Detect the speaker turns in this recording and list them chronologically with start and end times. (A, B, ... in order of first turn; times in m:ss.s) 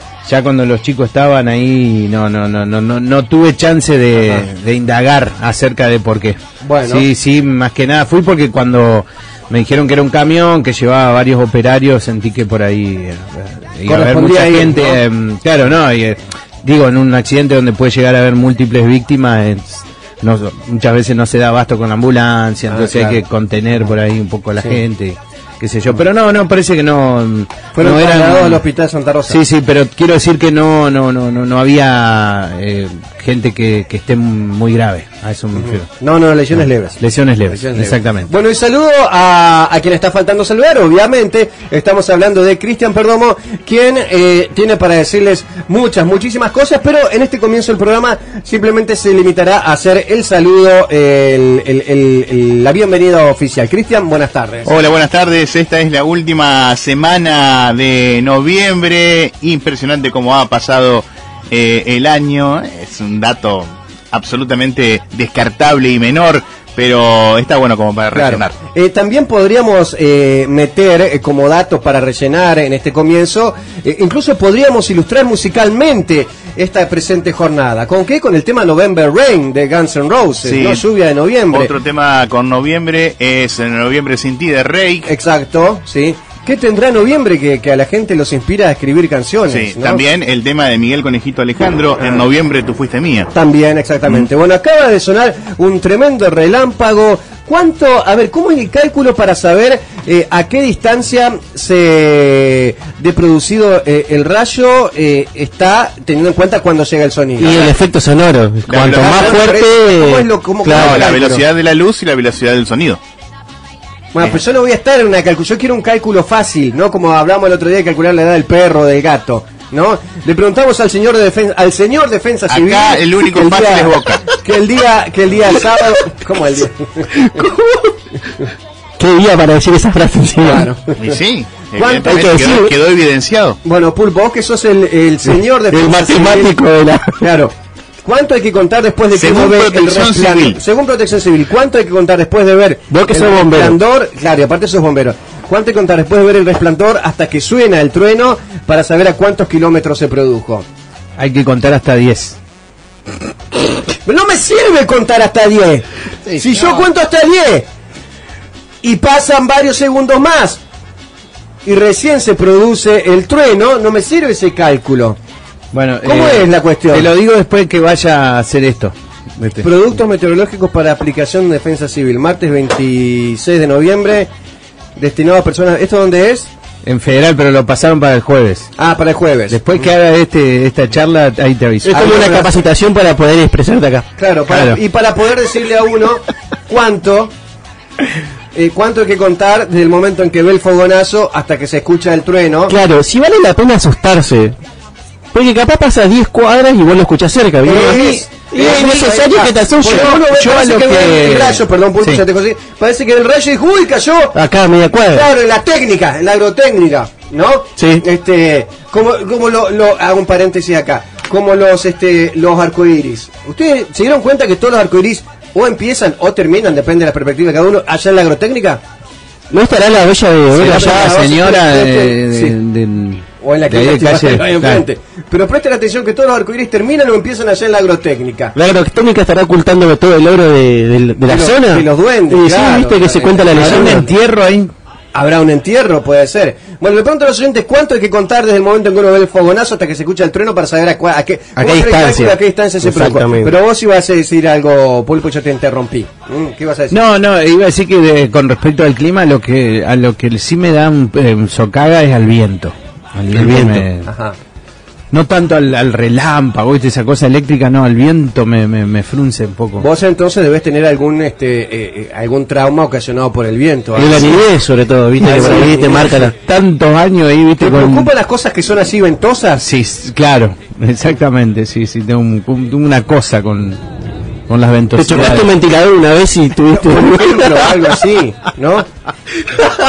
0:00.3-0:28.6 A
0:06.6-0:07.1 B
0:13.9-0:15.0 B
0:22.7-0:23.2 B
0:27.8-0:29.4 B
0:29.3-0:35.9 A
0:35.6-0:54.7 B
0:36.6-0:38.3 A
0:54.7-1:08.5 C
1:08.1-1:21.7 B
1:20.4-1:20.8 C
1:21.5-1:25.1 C
1:25.1-1:30.0 B
1:29.5-1:33.3 C
1:32.0-1:32.3 B
1:33.3-1:47.8 B
1:47.4-1:51.1 D
1:48.7-1:49.6 C
1:48.8-1:51.4 B
1:50.7-1:53.0 C
1:54.1-2:07.4 B
2:02.5-2:04.2 C
2:07.2-2:07.9 D
2:09.0-2:10.7 D
2:10.4-2:11.2 B
2:11.0-2:13.6 C
2:11.8-2:12.5 B
2:12.0-2:12.7 D
2:13.6-2:16.6 B
2:15.3-2:17.3 D
2:17.2-2:30.7 B
2:19.2-2:20.6 C
2:22.9-2:23.8 D
2:31.2-2:32.4 A
2:34.0-2:37.7 B
2:38.8-2:40.6 B
2:41.6-2:45.2 B
2:45.7-2:49.7 A
2:46.0-2:47.1 B
2:49.6-2:54.3 B
2:55.0-2:56.5 B
2:56.8-2:58.7 A
2:58.8-2:59.9 B
2:59.5-3:02.3 A
3:01.8-3:04.1 D
3:01.9-3:02.6 B
3:04.2-3:07.3 B
3:04.5-3:04.8 A
3:08.5-3:12.8 B
3:12.7-3:14.6 D
3:15.3-3:20.3 D
3:17.6-3:24.4 B
3:19.8-3:21.6 A
3:24.4-3:25.3 D
3:25.1-3:38.8 B
3:27.8-3:28.0 D
3:39.5-3:41.1 D
3:40.5-3:42.6 B
3:40.5-3:44.8 A
3:43.4-3:48.5 B
3:48.6-3:54.1 D
3:51.3-3:54.1 B
3:53.5-3:54.7 A
3:55.1-4:07.0 B
4:01.6-4:03.5 D
4:06.9-4:14.1 A
4:13.4-4:13.8 D
4:14.1-4:14.4 B
4:15.1-4:19.9 A
4:19.8-4:24.4 B
4:24.0-4:26.3 D
4:25.2-4:26.3 B
4:26.3-4:28.1 A
4:27.6-4:29.6 B
4:29.6-4:33.8 A
4:34.5-4:35.5 A
4:35.0-4:37.9 D
4:36.7-4:38.9 B